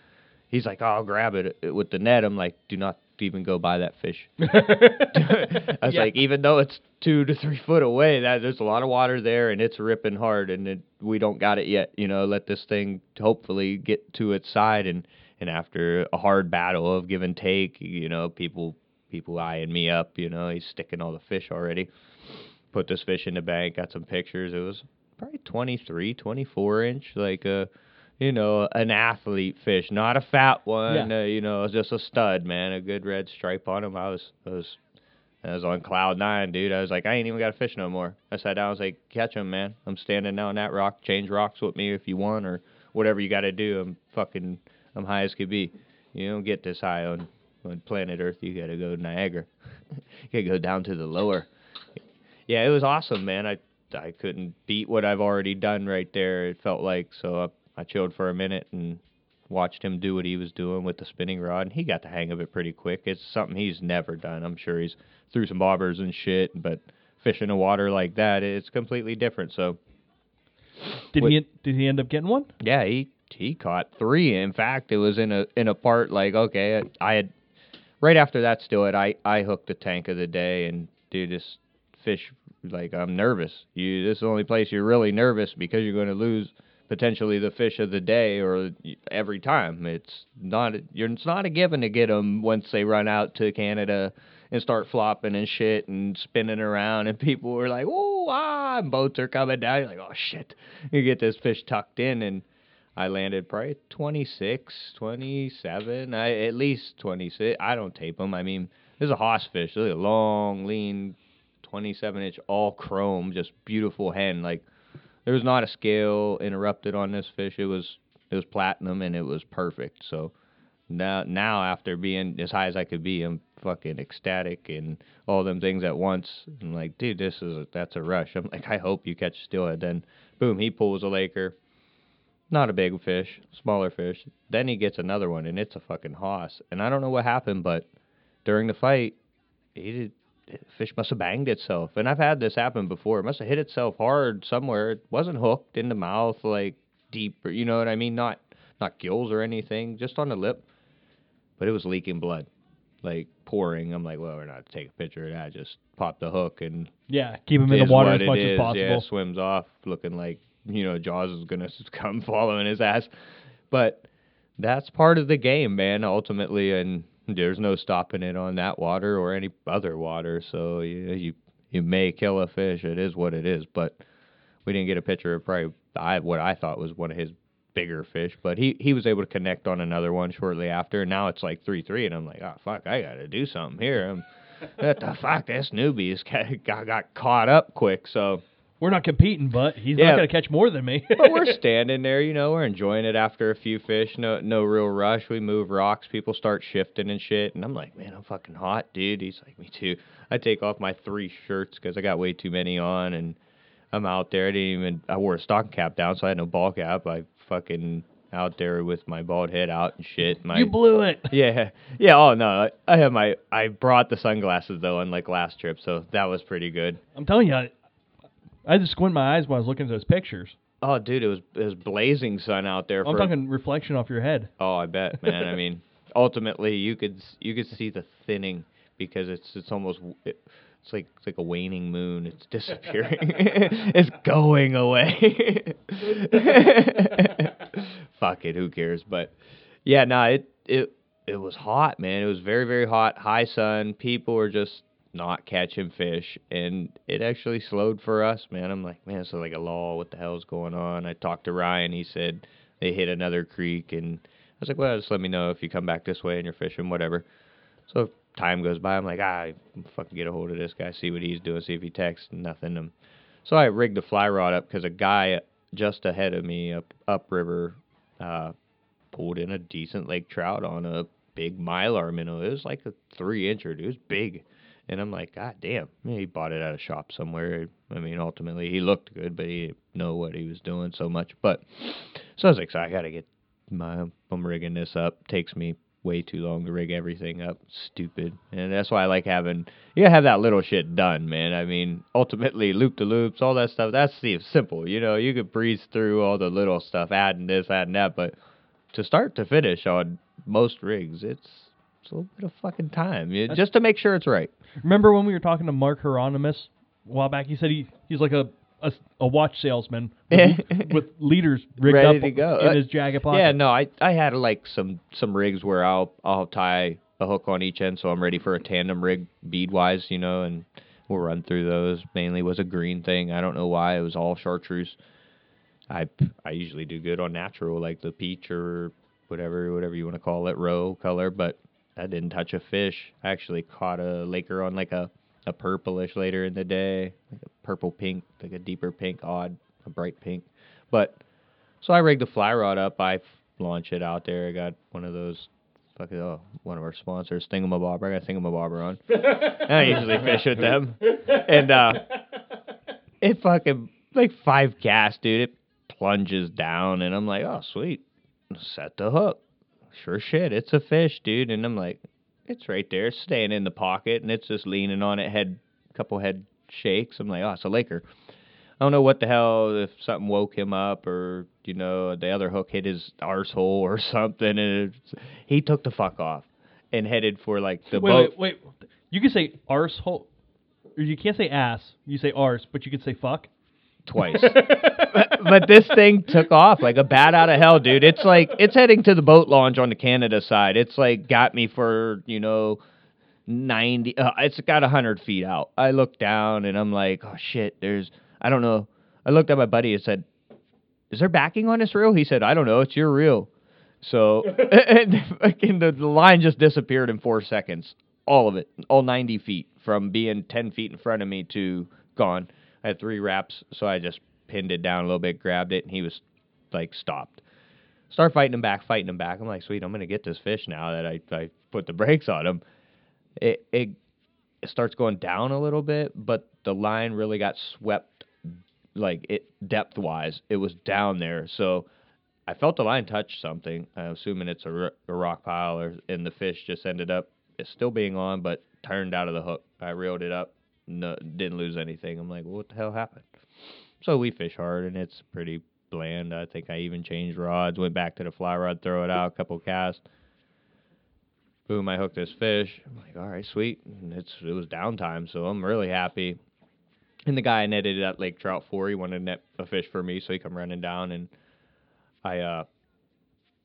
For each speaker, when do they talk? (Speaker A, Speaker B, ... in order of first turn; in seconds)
Speaker A: 0.5-4.4, 5.1-21.9, 22.7-27.7, 28.2-34.8, 35.4-51.5, 52.5-69.8, 72.6-77.3, 78.0-102.4, 103.0-114.6, 115.2-120.3, 120.9-131.6, 132.5-137.8, 138.4-139.2, 139.7-150.6, 151.6-152.5, 153.0-156.9, 157.7-163.1, 163.7-164.0, 164.6-174.0, 174.6-188.4, 189.9-190.2, 191.2-203.4, 203.9-210.7, 211.3-217.0, 220.8-223.3, 224.6-239.3, 239.8-257.2, 257.9-262.9, 263.4-268.5, 269.1-298.3, 298.9-304.5, 310.3-310.9, 311.8-325.0, 325.9-341.2, 341.8-352.1, 353.2-368.1, 368.8-378.3, 384.1-392.8, 393.5-400.2, 401.1-403.5, 404.0-417.4, 418.1-422.6, 423.4-424.0, 424.6-431.9, 432.5-443.3, 444.0-450.0, 451.7-456.4, 457.3-461.3, 462.2-462.7
Speaker B: 4.4-6.1, 71.1-72.5, 157.1-159.0, 188.8-191.6, 210.5-211.3, 217.2-217.7, 218.7-220.6, 223.0-224.5, 225.2-225.5, 304.8-313.6, 378.0-380.3, 380.9-383.5, 384.2-385.2